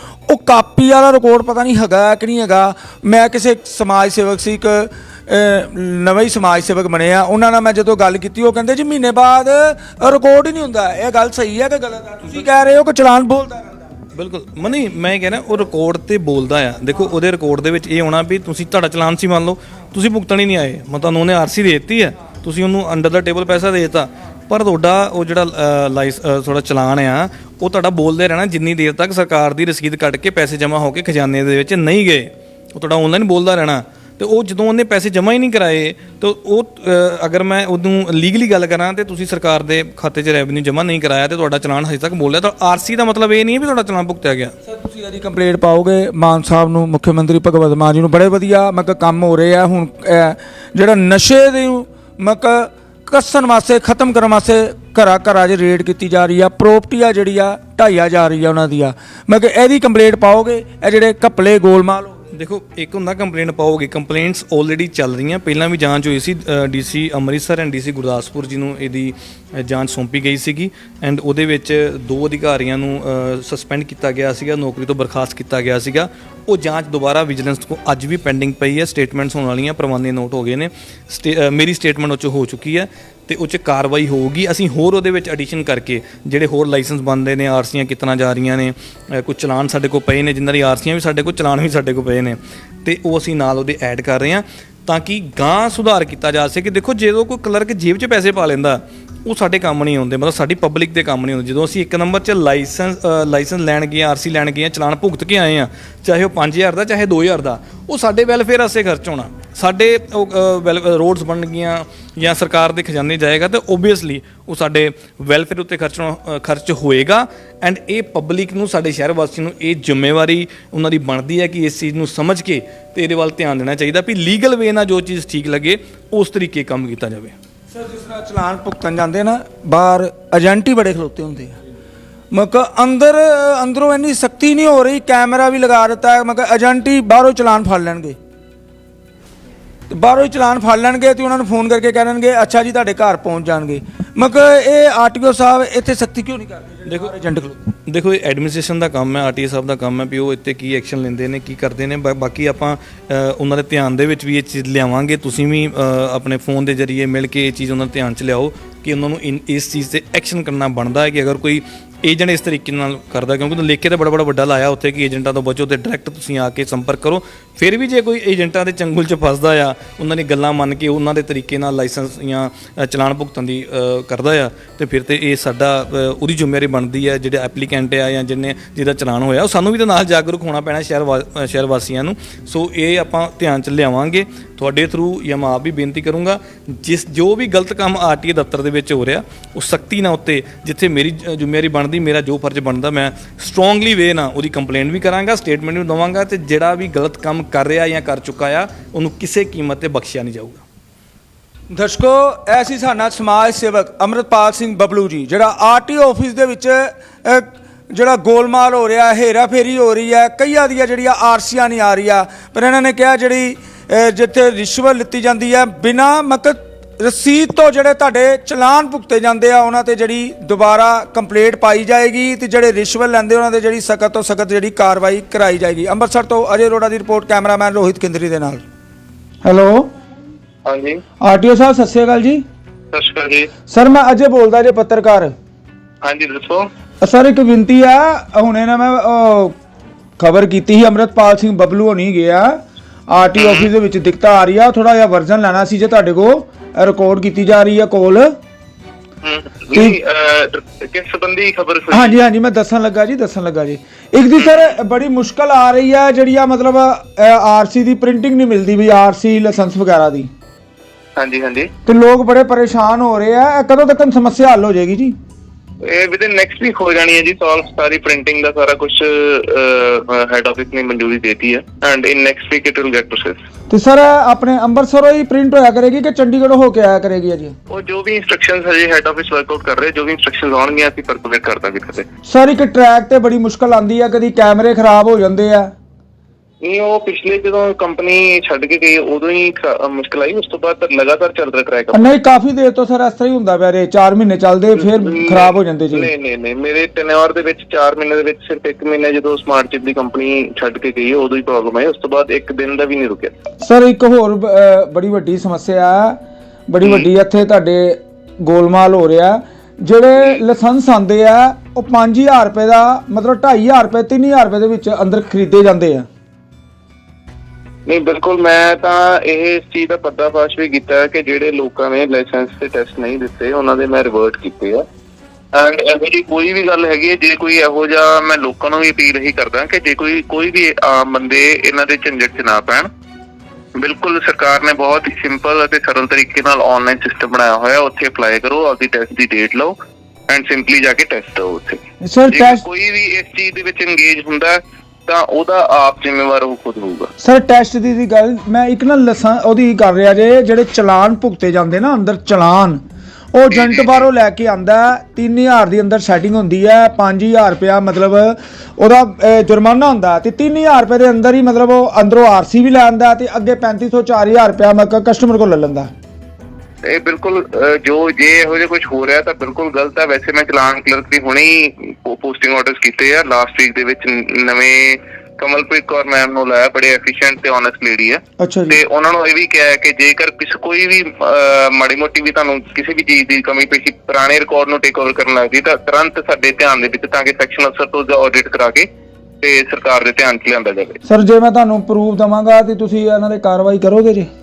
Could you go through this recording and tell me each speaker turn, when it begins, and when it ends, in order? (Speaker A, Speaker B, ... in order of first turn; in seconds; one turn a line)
Speaker A: 0.3-13.9
Speaker B: 14.1-44.5
Speaker A: 44.6-62.2
Speaker B: 62.3-127.3
Speaker A: 127.7-131.6
Speaker A: 132.3-138.2
Speaker A: 139.9-147.6
Speaker B: 146.9-147.1
Speaker B: 147.8-200.6
Speaker A: 201.7-228.6
Speaker A: 229.4-229.9
Speaker C: 230.6-231.0
Speaker A: 231.2-232.4
Speaker C: 232.9-233.5
Speaker A: 233.7-235.3
Speaker C: 236.0-236.7
Speaker A: 237.0-239.5
Speaker A: 240.2-248.3
Speaker C: 243.4-243.7
Speaker C: 249.2-252.2
Speaker A: 251.9-260.3
Speaker C: 254.3-254.7
Speaker C: 261.1-261.7
Speaker A: 261.9-265.1
Speaker C: 265.8-273.4
Speaker A: 273.7-277.5
Speaker C: 277.7-282.1
Speaker A: 282.2-285.7
Speaker C: 286.6-292.1
Speaker A: 291.9-296.1
Speaker C: 294.8-303.3
Speaker A: 303.6-316.1
Speaker C: 306.8-307.1
Speaker C: 317.9-324.8
Speaker C: 325.5-332.9
Speaker C: 333.8-339.8
Speaker C: 340.3-347.1
Speaker A: 342.0-342.6
Speaker A: 347.2-352.8
Speaker A: 353.3-365.9
Speaker C: 353.5-354.1
Speaker C: 366.9-388.9
Speaker A: 378.4-378.8
Speaker C: 389.4-391.0
Speaker A: 391.1-394.3